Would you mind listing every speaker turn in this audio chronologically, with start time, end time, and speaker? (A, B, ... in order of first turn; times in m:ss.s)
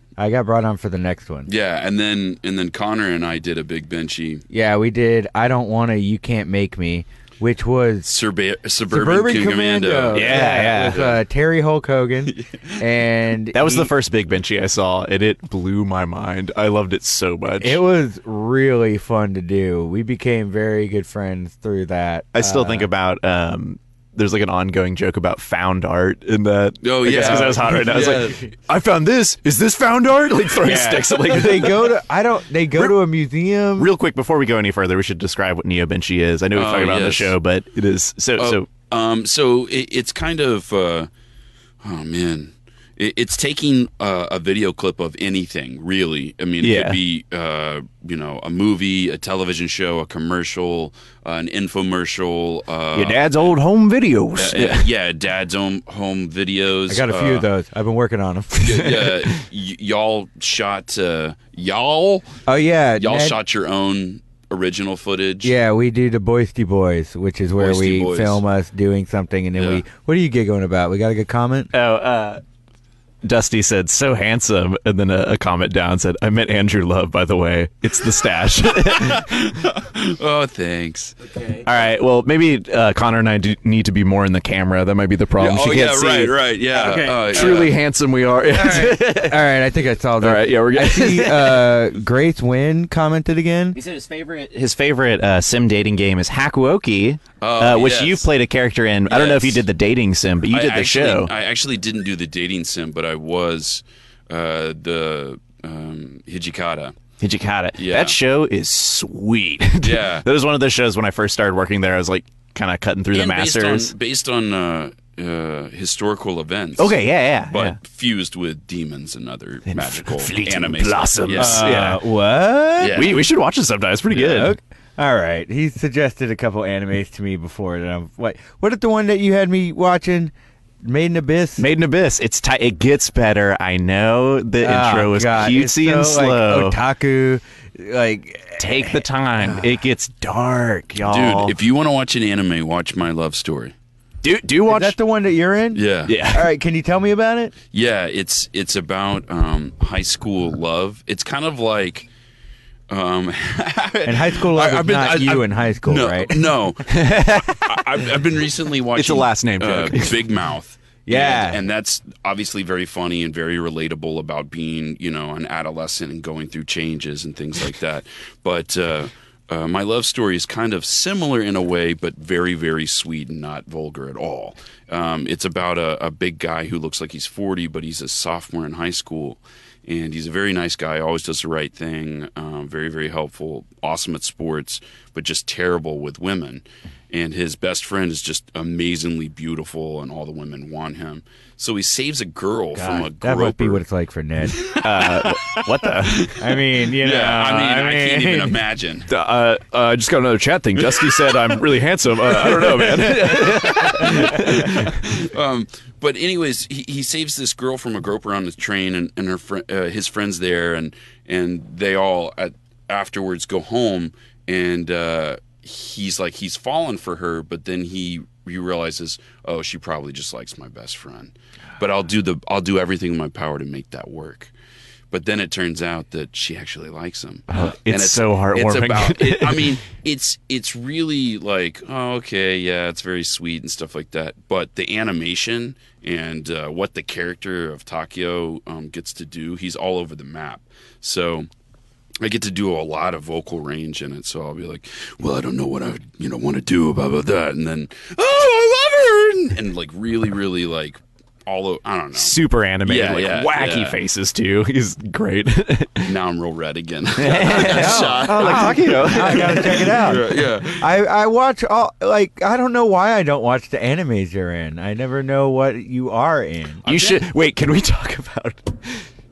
0:00.2-0:01.5 A
0:01.5-0:04.4 B
0:04.5-0:08.1 A
0:08.0-0:11.2 B
0:08.9-0:13.9 A
0:10.1-0:11.0 C
0:12.4-0:12.7 B
0:13.5-0:17.8 C
0:17.6-0:22.9 A
0:22.3-0:32.0 C
0:26.8-0:28.4 B
0:27.1-0:28.4 A
0:30.6-0:33.9 A
0:33.8-0:38.7 C
0:36.5-0:37.3 B
0:38.4-0:41.1 B
0:41.8-0:53.3 B
0:46.6-0:47.0 C
0:52.9-0:54.9 C
0:54.4-0:57.5 B
0:56.9-0:59.0 A
0:58.6-1:02.3 B
1:02.4-1:03.4 A
1:03.0-1:05.5 B
1:05.4-1:11.7 A
1:07.6-1:08.4 B
1:09.6-1:09.8 B
1:11.7-1:12.4 C
1:13.2-1:19.4 C
1:18.8-1:21.2 B
1:21.6-1:26.3 C
1:25.4-1:27.7 B
1:26.7-1:27.6 A
1:27.3-1:29.4 C
1:28.5-1:33.8 A
1:30.2-1:31.8 C
1:33.7-1:41.3 C
1:37.4-1:38.3 B
1:39.1-1:39.6 B
1:40.5-1:47.0 B
1:47.2-1:53.9 C
1:47.8-1:48.2 B
1:49.8-1:50.2 B
1:53.1-2:01.8 B
1:56.8-1:57.8 C
1:59.7-2:02.0 C
2:01.4-2:03.0 A
2:02.8-2:03.2 B
2:02.9-2:04.6 C
2:04.1-2:10.3 A
2:10.8-2:11.6 A
2:11.6-2:16.8 C
2:14.6-2:19.7 A
2:18.6-2:21.6 C
2:21.0-2:23.7 B
2:24.2-2:25.0 C
2:24.7-2:27.5 A
2:25.7-2:26.2 B
2:26.0-2:26.5 C
2:27.7-2:32.1 B
2:32.9-3:13.8 B
2:34.0-2:36.4 A
2:36.9-2:37.9 C
2:38.9-2:40.2 C
2:41.0-2:41.6 A
3:12.7-3:14.8 A
3:14.5-3:19.1 B
3:14.7-3:16.3 C
3:16.2-3:18.6 A
3:19.1-3:25.0 C
3:20.9-3:21.3 B
3:22.5-3:44.5 B
3:45.1-4:01.5 B
3:47.5-3:49.8 C
4:02.2-4:14.0 B
4:12.1-4:16.2 C
4:16.0-4:20.9 B
4:17.2-4:20.0 C
4:17.5-4:26.8 A
4:26.8-4:29.0 C
4:26.8-4:27.2 B